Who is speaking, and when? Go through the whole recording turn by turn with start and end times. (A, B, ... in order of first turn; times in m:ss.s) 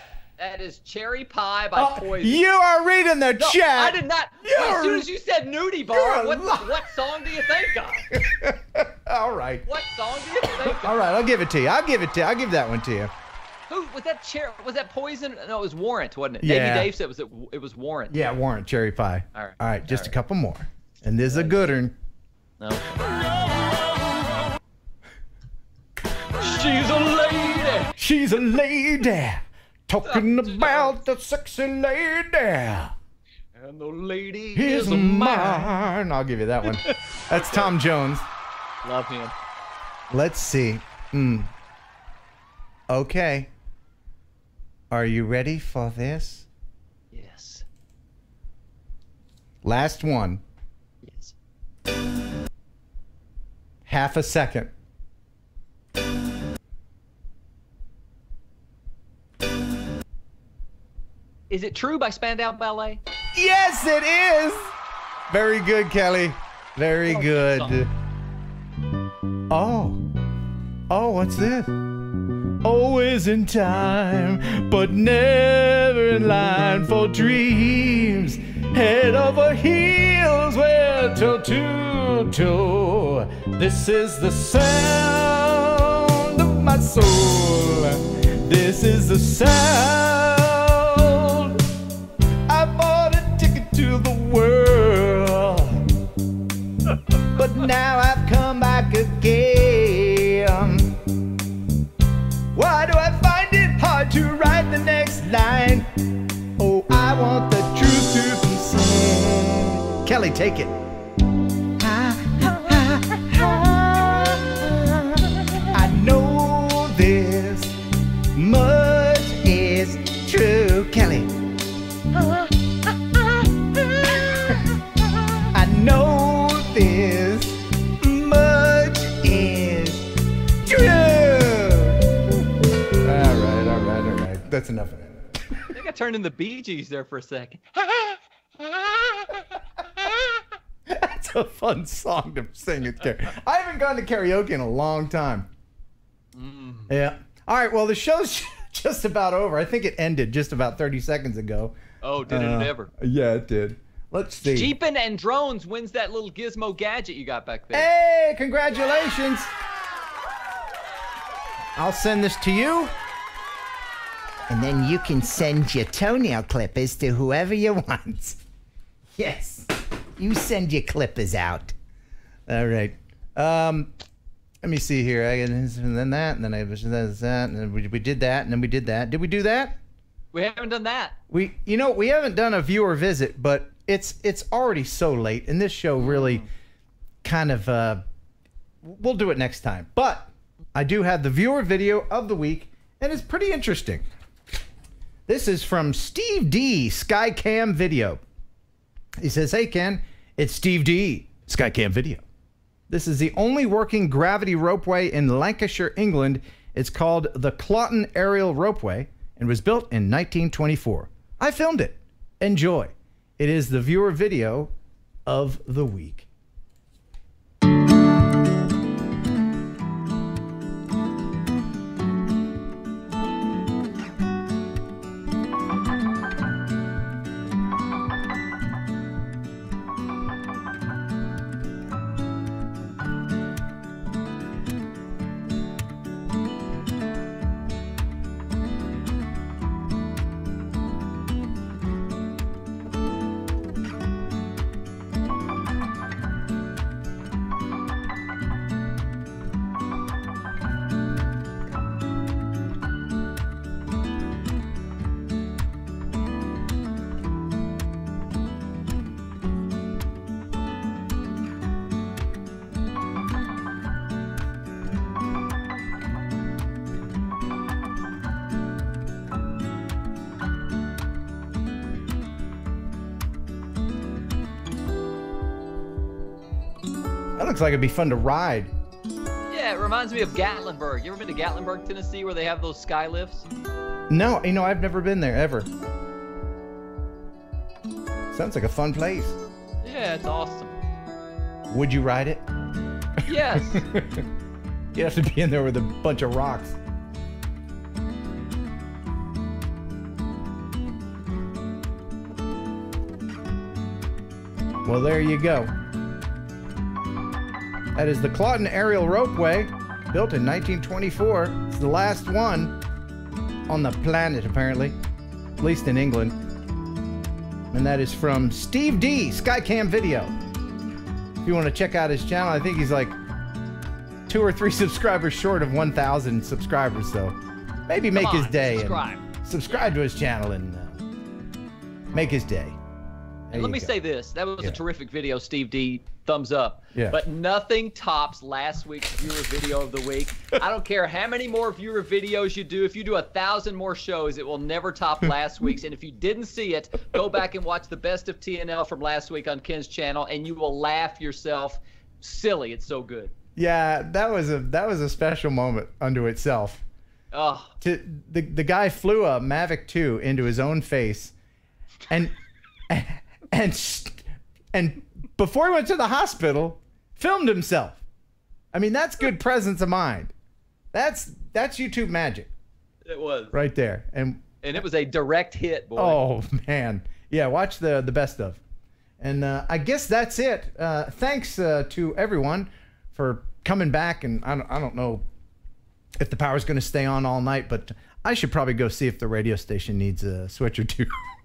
0:00.4-0:02.4 A
0:01.7-0:05.0 B
0:03.4-0:08.1 A
0:05.9-0:06.8 B
0:08.1-0:09.6 B
0:09.6-0:10.9 A
0:10.6-0:13.1 B
0:13.7-0:18.2 A
0:16.4-0:16.9 B
0:18.1-0:22.0 B
0:19.3-0:20.1 A
0:21.3-0:21.7 A
0:22.6-0:23.2 A
0:26.4-0:27.9 A
0:28.0-0:32.9 B
0:30.0-0:31.0 A
0:33.5-0:35.7 A
0:34.5-0:38.3 B
0:36.6-0:37.7 A
0:38.8-0:39.3 A
0:40.1-0:41.5 B
0:42.9-0:43.5 B
0:44.9-0:46.5 B
0:47.1-0:47.6 A
0:49.6-0:50.4 B
0:51.0-0:51.3 A
0:53.8-0:54.7 B
1:01.5-1:03.0 A
1:03.3-1:04.7 B
1:05.3-1:07.9 B
1:07.1-1:07.8 A
1:09.5-1:10.0 B
1:10.9-1:11.7 B
1:12.6-1:31.6 B
1:32.5-1:35.8 B
1:37.3-1:41.0 B
1:42.5-1:45.9 B
1:46.6-1:50.7 B
1:51.8-1:57.7 B
1:58.3-2:01.3 B
2:02.2-2:02.4 A
2:03.8-2:04.2 A
2:05.5-2:10.0 B
2:10.6-2:12.1 B
2:13.0-2:15.2 B
2:15.7-2:19.4 A
2:20.0-2:20.4 A
2:20.9-2:25.5 B
2:26.3-2:26.9 A
2:26.9-2:34.7 B
2:32.0-2:32.9 A
2:34.4-2:37.9 A
2:37.7-2:39.5 B
2:41.8-2:42.9 B
2:44.5-2:48.4 B
2:49.2-2:51.7 B
2:52.5-2:53.9 B
2:54.6-2:59.8 B
3:00.3-3:01.2 A
3:01.3-3:06.4 B
3:06.0-3:06.5 A
3:07.2-3:08.0 B
3:08.8-3:14.1 B
3:15.3-3:18.2 B
3:19.2-3:22.2 B
3:22.9-3:34.7 B
3:35.2-3:36.3 B
4:37.4-4:38.7 B
4:39.5-4:43.5 A
4:44.1-4:45.7 B
4:48.3-4:49.4 B
4:49.8-4:50.7 A
4:51.7-4:52.4 B
4:53.3-4:53.8 A
4:53.5-4:54.2 B
4:54.9-4:56.8 B
5:04.8-5:05.7 B
5:07.9-5:12.8 B
5:13.7-5:15.0 B
5:15.6-5:16.4 B
5:17.7-5:20.3 B
5:21.4-5:23.2 B
5:24.3-5:31.0 B
5:28.1-5:29.2 A
5:32.1-5:32.8 B
5:33.5-5:34.0 B
5:33.5-5:53.3 A
5:36.9-5:37.2 B
5:53.6-5:56.8 B
5:57.3-5:57.7 A
5:57.8-6:01.3 B
6:02.1-6:02.3 B
6:02.9-6:08.0 B
6:08.7-6:10.3 B
6:10.9-6:12.5 B
6:13.1-6:13.6 A
6:13.5-6:14.4 B
6:14.6-6:16.2 A
6:16.0-6:18.6 B
6:19.2-6:25.2 B
6:26.2-6:31.2 B